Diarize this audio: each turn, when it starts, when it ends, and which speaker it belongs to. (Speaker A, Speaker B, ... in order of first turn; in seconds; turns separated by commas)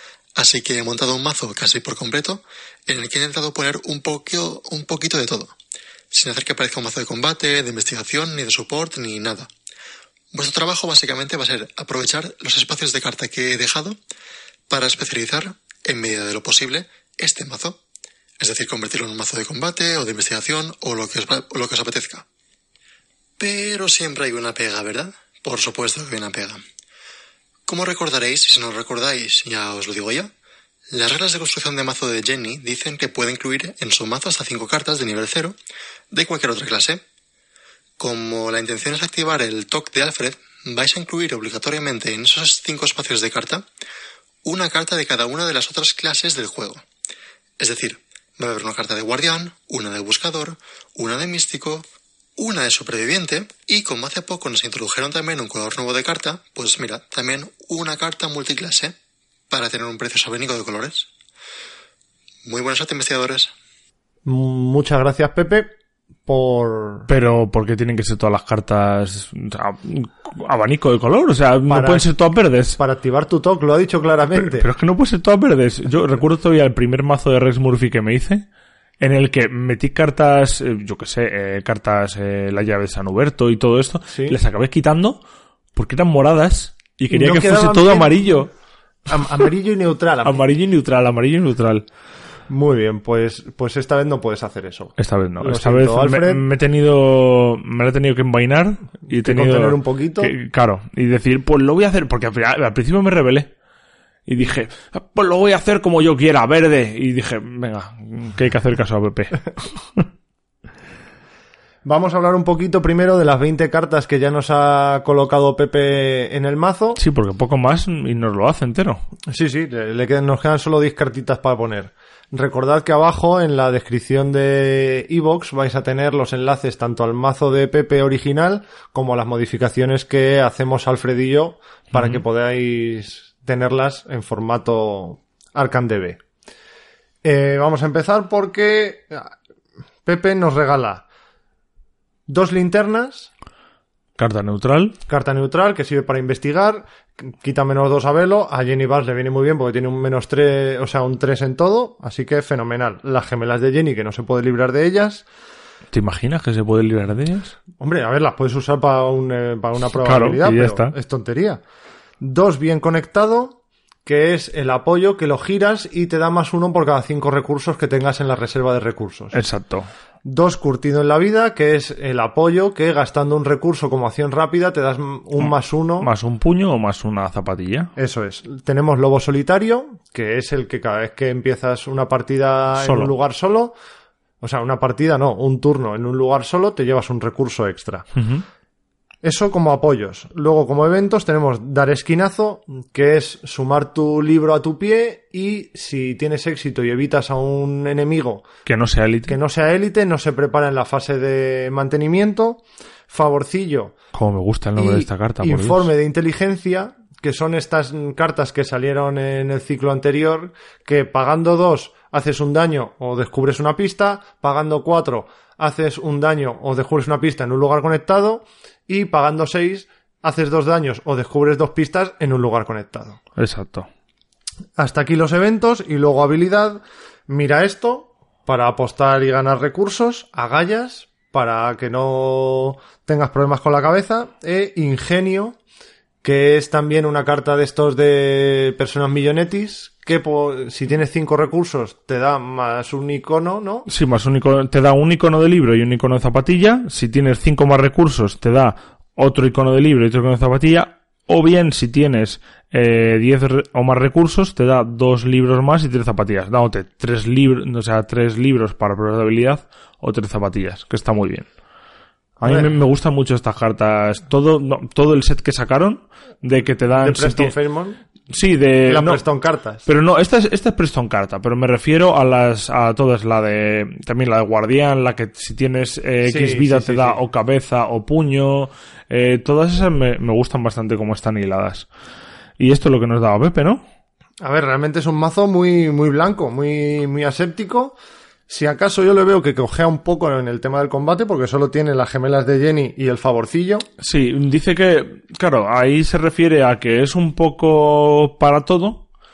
Speaker A: 0.4-5.6, Speaker A: 6.1-9.5, Speaker A: 10.3-14.0, Speaker A: 14.7-17.8, Speaker A: 18.4-22.3, Speaker A: 23.4-26.6, Speaker A: 27.7-30.3, Speaker A: 30.9-35.6, Speaker A: 36.1-37.0, Speaker A: 38.0-43.7, Speaker A: 44.4-46.8, Speaker A: 47.6-59.0, Speaker A: 59.5-61.1, Speaker A: 62.5-63.5, Speaker B: 64.2-65.7, Speaker B: 66.3-67.1, Speaker C: 67.1-72.8, Speaker B: 71.7-72.1, Speaker B: 72.8-74.7, Speaker C: 74.4-78.5, Speaker C: 79.0-85.2, Speaker B: 84.1-84.4, Speaker C: 85.8-88.5, Speaker B: 87.1-88.5, Speaker B: 89.1-90.4, Speaker C: 90.2-91.8, Speaker B: 92.5-96.4, Speaker C: 95.0-103.5, Speaker B: 99.1-100.3, Speaker C: 104.3-110.0, Speaker B: 111.8-117.0, Speaker C: 117.0-119.0, Speaker B: 119.3-136.2, Speaker C: 131.9-132.2, Speaker B: 137.2-139.3, Speaker B: 140.1-141.0, Speaker B: 142.3-143.3, Speaker C: 144.2-145.0, Speaker B: 145.1-155.3, Speaker C: 155.9-157.6, Speaker B: 157.8-161.6, Speaker C: 160.0-160.9, Speaker B: 162.2-169.4, Speaker C: 169.3-169.9, Speaker B: 170.2-176.1, Speaker C: 175.4-177.9, Speaker B: 178.0-183.8, Speaker C: 182.8-183.1, Speaker B: 184.4-188.1, Speaker C: 188.2-188.4, Speaker B: 189.2-198.5, Speaker C: 198.7-199.4, Speaker B: 199.3-203.9, Speaker C: 204.1-205.9, Speaker B: 204.8-223.2, Speaker C: 223.4-223.9, Speaker B: 224.8-235.6, Speaker B: 236.2-243.9, Speaker C: 243.9-261.5, Speaker B: 262.4-262.8, Speaker C: 262.4-267.6, Speaker B: 266.9-268.0, Speaker C: 268.3-269.2, Speaker B: 268.9-269.9, Speaker C: 269.9-281.9, Speaker B: 276.2-277.2, Speaker C: 282.6-283.8, Speaker B: 284.4-293.9, Speaker C: 294.0-299.1